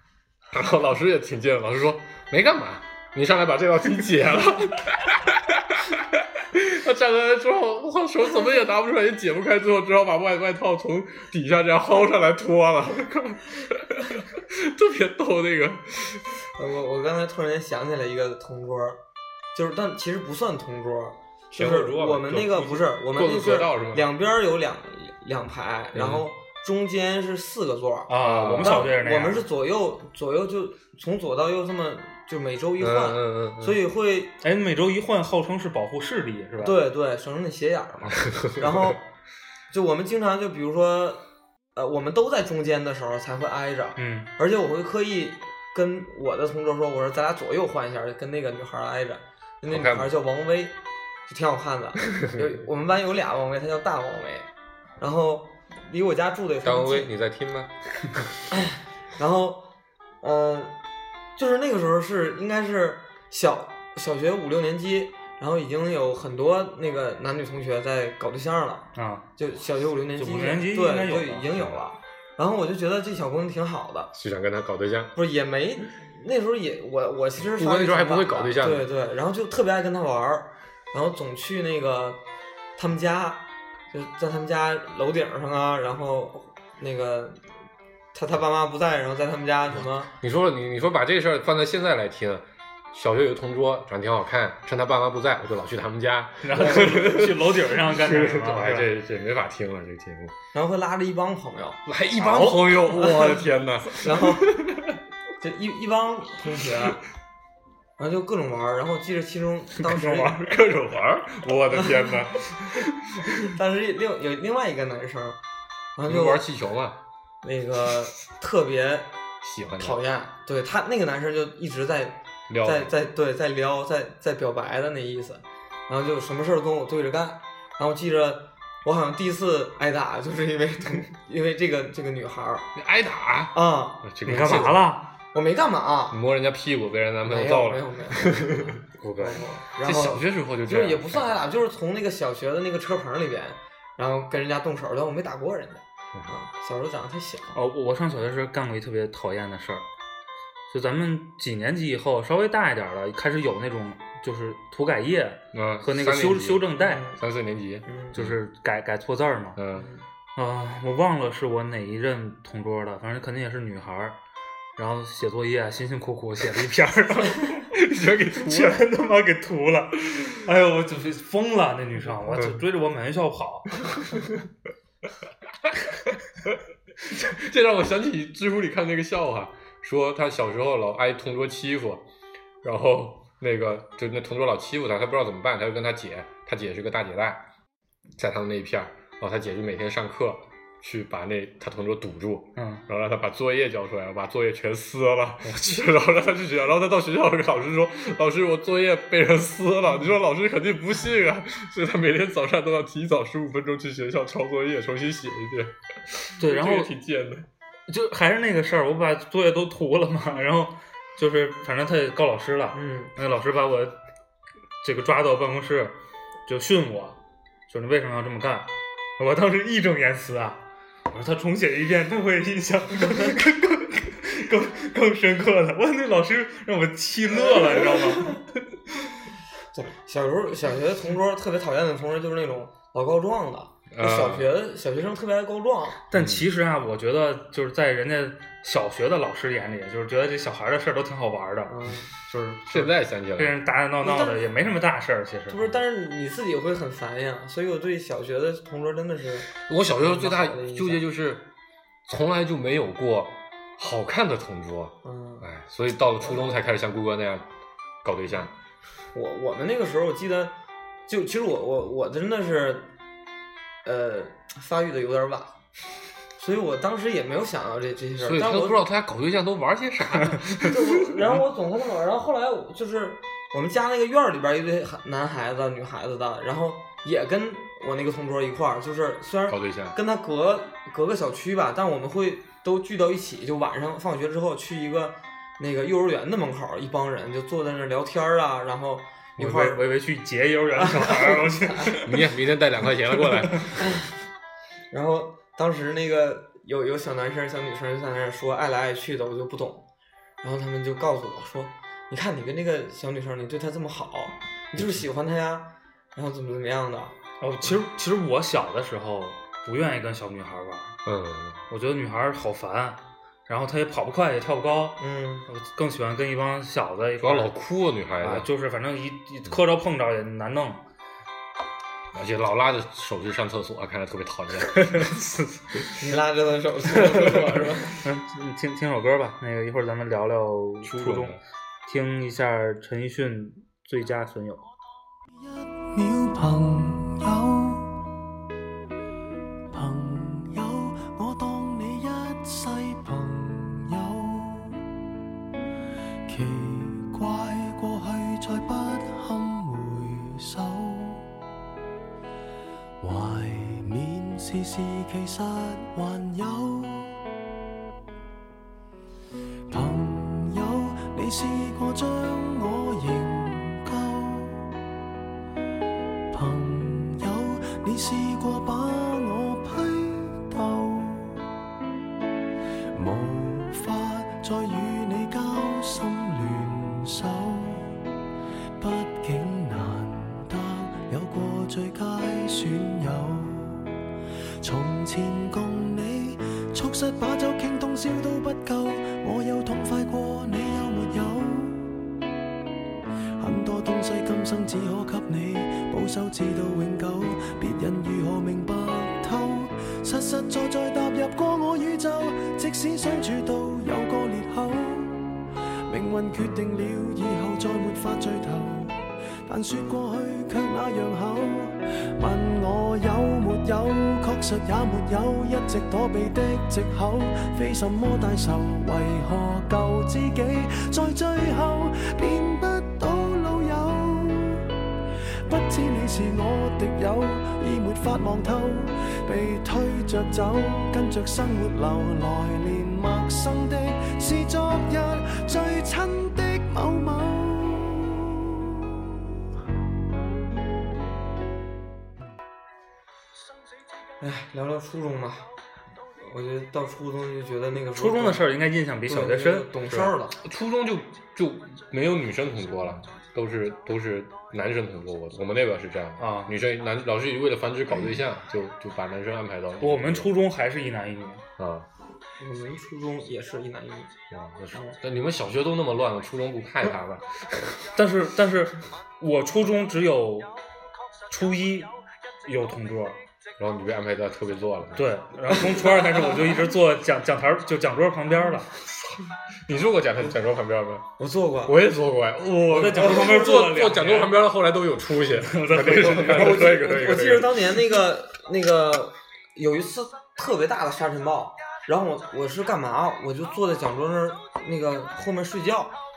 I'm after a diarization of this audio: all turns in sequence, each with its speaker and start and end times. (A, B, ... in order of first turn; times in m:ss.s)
0:00.5-0:16.4 A
0:16.6-0:19.0 B
0:19.5-0:34.4 B
0:21.6-0:24.0 A
0:25.9-0:26.2 A
0:28.1-0:29.5 C
0:28.2-0:28.9 A
0:32.8-0:33.8 A
0:34.4-0:36.8 C
0:36.6-0:39.0 B
0:38.1-0:39.0 A
0:39.7-0:41.2 B
0:41.8-0:54.5 B
0:44.0-0:44.3 C
0:49.7-0:50.1 A
0:52.2-0:52.5 A
0:55.0-0:57.1 B
0:56.6-0:58.5 A
0:58.5-0:59.7 B
1:00.2-1:00.8 B
1:01.4-1:14.1 B
1:09.0-1:09.3 C
1:10.2-1:11.5 C
1:14.1-1:15.1 A
1:15.2-1:22.2 B
1:17.4-1:18.9 A
1:22.8-1:27.4 B
1:28.1-1:30.1 B
1:30.2-1:40.3 A
1:36.4-1:38.9 C
1:36.6-1:37.1 B
1:40.5-1:41.8 B
1:41.9-1:45.0 A
1:42.2-1:42.6 C
1:42.4-1:44.6 B
1:45.4-1:47.0 B
1:48.0-1:50.5 B
1:49.9-1:52.9 A
1:51.7-1:52.1 B
1:53.4-1:55.4 B
1:56.0-1:56.5 B
1:56.1-1:57.0 A
1:57.4-1:59.1 B
1:59.4-2:00.0 A
1:59.8-2:12.7 B
2:02.5-2:02.9 A
2:12.8-2:14.9 A
2:13.5-2:14.0 B
2:14.2-2:15.1 C
2:15.3-2:16.2 B
2:16.1-2:18.8 A
2:17.2-2:27.6 B
2:19.0-2:19.4 C
2:19.8-2:21.4 A
2:27.5-2:29.8 C
2:30.7-2:37.1 C
2:35.5-2:38.4 A
2:36.8-2:37.2 B
2:37.9-2:38.2 B
2:38.1-2:39.6 C
2:39.6-2:39.9 A
2:39.7-2:40.0 B
2:40.4-2:44.2 C
2:44.8-2:47.7 C
2:47.7-2:48.8 A
2:48.4-2:53.8 C
2:52.3-2:52.6 A
2:54.2-2:54.4 A
2:56.1-2:56.6 A
2:57.3-3:02.0 A
3:02.6-3:07.4 A
3:08.2-3:27.5 A
3:12.6-3:12.8 C
3:26.4-3:26.9 C
3:27.9-3:34.0 C
3:32.7-3:33.1 B
3:34.8-3:48.8 C
3:47.5-3:48.4 B
3:49.7-3:56.0 B
3:53.9-3:54.5 A
3:56.1-4:05.7 C
3:56.1-3:56.4 A
4:01.7-4:02.1 B
4:02.7-4:03.6 A
4:04.0-4:04.5 B
4:05.5-4:11.0 B
4:09.6-4:11.5 A
4:12.1-4:17.5 A
4:15.0-4:15.5 B
4:16.2-4:16.6 B
4:18.0-4:18.5 A
4:19.1-4:20.5 B
4:21.1-4:22.9 B
4:23.8-4:25.6 B
4:26.4-4:28.8 B
4:28.2-4:31.4 A
4:30.6-4:49.8 B
4:39.5-4:40.0 A
4:49.4-4:52.2 C
4:50.8-4:52.0 B
4:52.0-4:54.0 A
4:53.8-4:54.1 B
4:54.9-4:59.8 B
5:00.4-5:07.2 B
5:04.8-5:05.0 A
5:07.4-5:11.0 C
5:11.0-5:11.6 A
5:11.7-5:17.5 C
5:15.0-5:15.5 B
5:17.2-5:18.5 A
5:18.2-5:20.8 C
5:22.1-5:25.2 A
5:24.7-5:25.4 C
5:26.0-5:28.0 B
5:26.9-5:27.8 A
5:28.0-5:34.6 C
5:30.8-5:31.4 A
5:35.4-5:38.0 D
5:39.7-5:44.8 D
5:46.3-5:51.3 D
5:53.0-5:57.2 D
5:59.7-6:04.7 D
6:06.3-6:11.4 D
6:12.9-6:18.0 D
6:18.8-6:23.9 D
6:24.6-6:32.0 D
6:33.4-6:45.3 D
6:45.9-7:04.7 D
7:05.5-7:18.9 D
7:24.2-7:25.5 B
7:26.2-7:28.5 B
7:27.9-7:30.1 C
7:29.1-7:30.4 B
7:30.4-7:40.3 A
7:36.2-7:36.6 C
7:39.8-7:41.4 C
7:41.6-7:41.9 A
7:42.4-7:44.2 B
7:44.3-7:47.8 A
7:47.9-7:50.5 C
7:51.3-7:51.9 C
7:52.4-7:53.2 C
7:53.6-7:55.1 A
7:55.0-7:58.7 C
7:59.7-8:01.0 A
8:01.2-8:01.8 B
8:01.6-8:07.7 A
8:02.7-8:04.4 C
8:05.4-8:06.7 C
8:06.2-8:16.0 B